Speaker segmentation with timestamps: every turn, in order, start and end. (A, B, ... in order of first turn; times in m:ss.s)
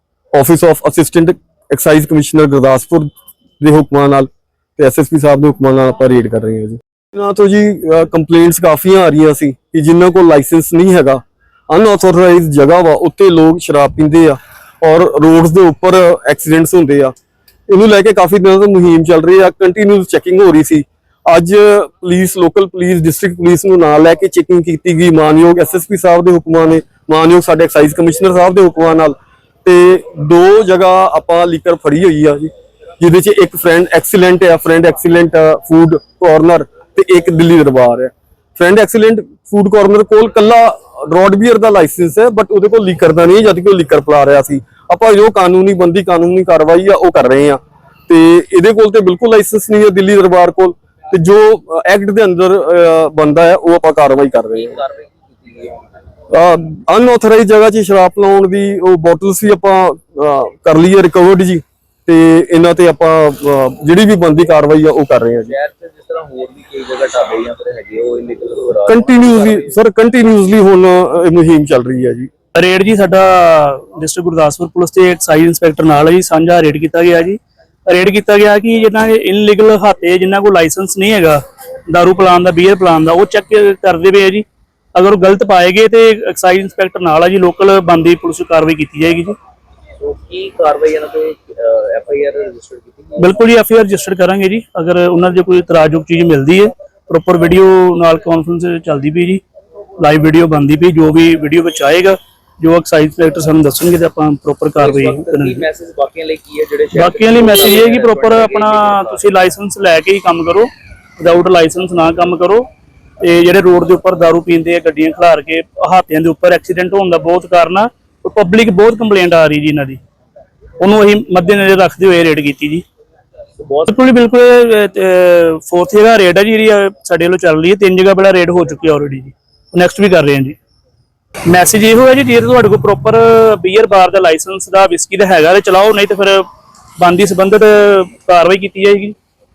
0:00.3-0:17.1 A
0:17.7-0:54.8 A
0:54.5-0:55.9 B
0:56.3-1:05.5 A
1:05.4-1:09.8 B
1:08.8-1:12.3 A
1:12.5-1:29.4 C
1:30.0-1:33.4 B
1:33.2-1:39.4 C
1:40.0-1:45.6 C
1:44.8-1:49.3 B
1:46.9-1:52.6 C
1:53.2-2:00.0 C
2:00.8-2:02.8 C
2:03.6-2:03.9 B
2:03.8-2:10.6 C
2:11.5-2:16.4 C
2:17.0-2:19.2 C